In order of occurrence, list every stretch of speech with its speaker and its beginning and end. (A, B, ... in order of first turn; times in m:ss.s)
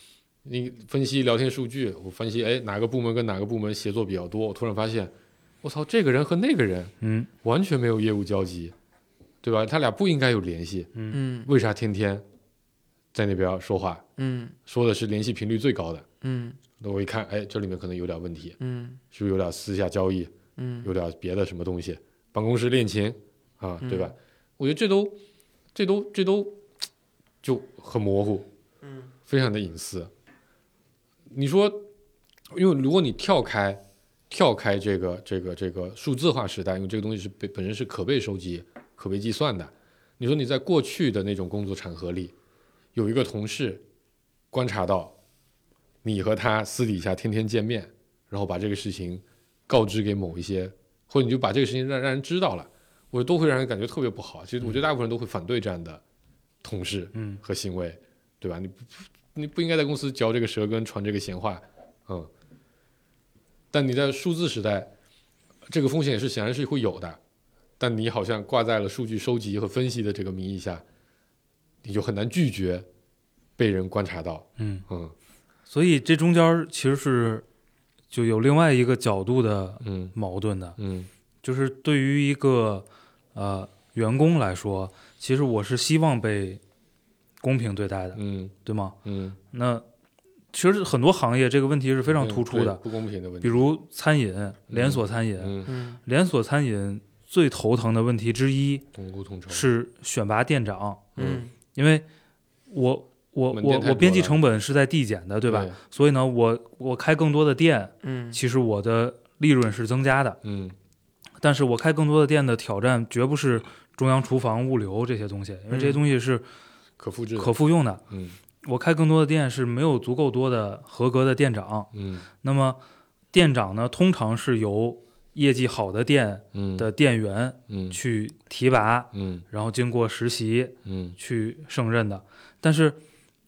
0:00.4-0:08.7 A
0:07.0-0:07.3 B
0:09.4-0:10.9 A
0:11.1-0:11.5 C
0:11.4-0:12.2 A
0:13.1-0:14.0 A
0:14.2-0:14.6 C
0:14.7-0:16.0 A
0:16.2-0:16.6 C
0:16.8-0:18.6 A
0:18.6-0:19.0 C
0:19.1-0:20.3 A
0:20.6-0:20.9 C
0:20.8-0:25.2 A
0:23.8-0:24.1 C
0:25.7-0:26.6 A
0:27.4-0:28.5 A
0:28.8-0:29.1 C
0:29.3-0:30.1 A
0:31.3-0:31.9 A
0:32.5-0:42.3 A
0:43.0-0:43.8 A
0:44.5-0:45.1 A
0:46.0-0:56.0 A
0:56.6-1:02.3 A
0:57.2-0:57.4 B
1:03.7-1:04.9 A
1:05.7-1:07.2 A
1:07.8-1:10.8 A
1:11.8-1:12.9 A
1:13.6-1:15.1 A
1:14.6-1:14.8 B
1:15.7-1:17.4 B
1:18.1-1:20.8 B
1:19.8-1:20.2 A
1:20.8-1:21.1 A
1:21.4-1:26.6 B
1:27.4-1:29.0 B
1:28.2-1:29.4 A
1:29.5-1:29.8 B
1:30.5-1:32.8 B
1:32.1-1:33.7 A
1:33.4-1:35.5 B
1:34.7-1:35.7 A
1:35.7-1:36.0 C
1:36.0-1:38.8 B
1:38.9-1:39.7 A
1:39.5-1:41.1 B
1:41.2-1:41.5 A
1:41.2-1:41.5 C
1:41.8-1:42.1 B
1:42.7-1:50.4 B
1:43.5-1:44.4 A
1:45.5-1:45.8 A
1:48.0-1:48.4 C
1:50.4-1:50.8 A
1:51.4-1:56.4 B
1:55.7-1:56.0 C
1:57.0-1:57.5 A
1:57.4-1:58.0 B
1:58.1-1:58.4 A
1:58.6-2:01.9 B
2:01.9-2:02.3 A
2:02.4-2:02.8 B
2:03.3-2:13.0 B
2:06.5-2:06.9 A
2:07.7-2:08.0 A
2:09.1-2:09.4 A
2:10.8-2:11.2 A